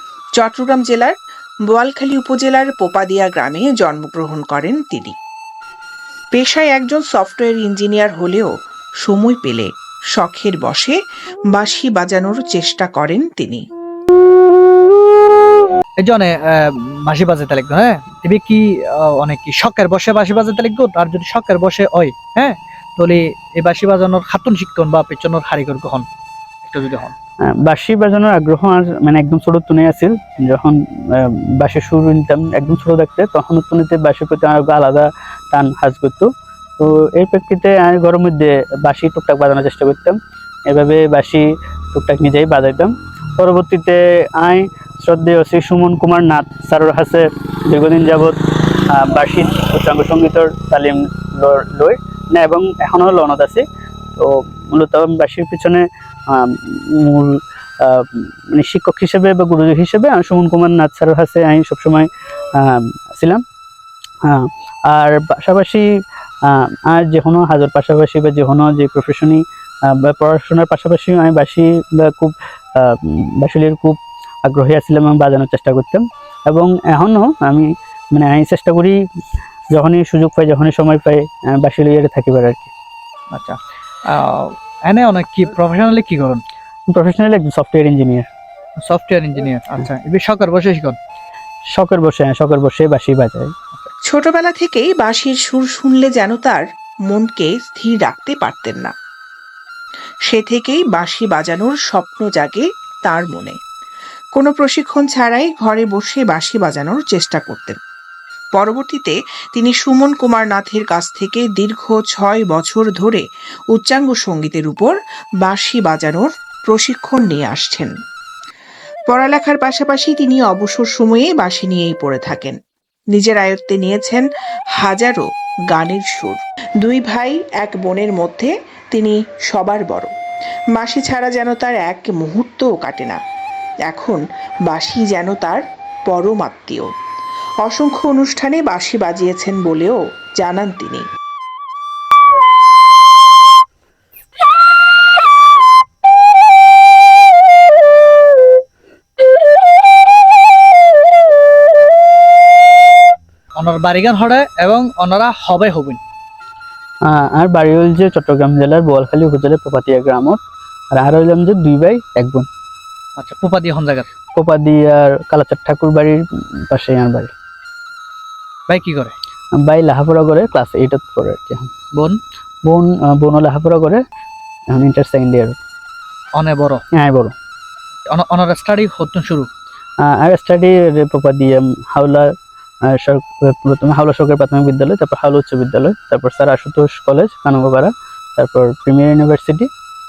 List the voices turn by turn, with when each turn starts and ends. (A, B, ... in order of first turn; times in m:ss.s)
0:00.4-0:01.2 A
0:01.7-0:05.2 A
0:06.3-0:08.5 A
0:09.0-0:11.0 A
0:11.5-0:13.6 A
0:16.0-0:26.0 B
0:26.6-0:27.1 B
0:27.4-0:48.4 C
0:48.9-1:03.4 C
1:04.2-1:05.9 C
1:06.5-1:19.0 C
1:19.7-1:22.7 C
1:23.3-1:23.6 B
1:24.1-1:26.4 B
1:26.9-1:28.3 C
1:28.8-1:31.0 B
1:31.7-1:33.5 C
1:34.1-1:38.9 A
1:40.3-1:43.6 A
1:44.4-1:47.8 A
1:48.6-1:57.9 A
1:59.1-2:02.6 A
2:03.1-2:04.3 A
2:04.8-2:10.1 A
2:10.8-2:13.2 A
2:13.8-2:16.9 A
2:17.6-2:21.1 A
2:33.6-2:36.0 B
2:37.1-2:40.4 C
2:40.9-2:42.5 C
2:43.2-2:44.1 B
2:44.3-2:47.3 C
2:48.7-2:49.1 B
2:49.6-2:51.7 C
2:52.6-2:54.0 C
2:54.7-2:55.6 C
2:56.4-2:56.8 B
2:56.9-2:57.3 C
2:58.1-2:59.5 B
3:00.0-3:02.3 C
3:02.9-3:09.7 C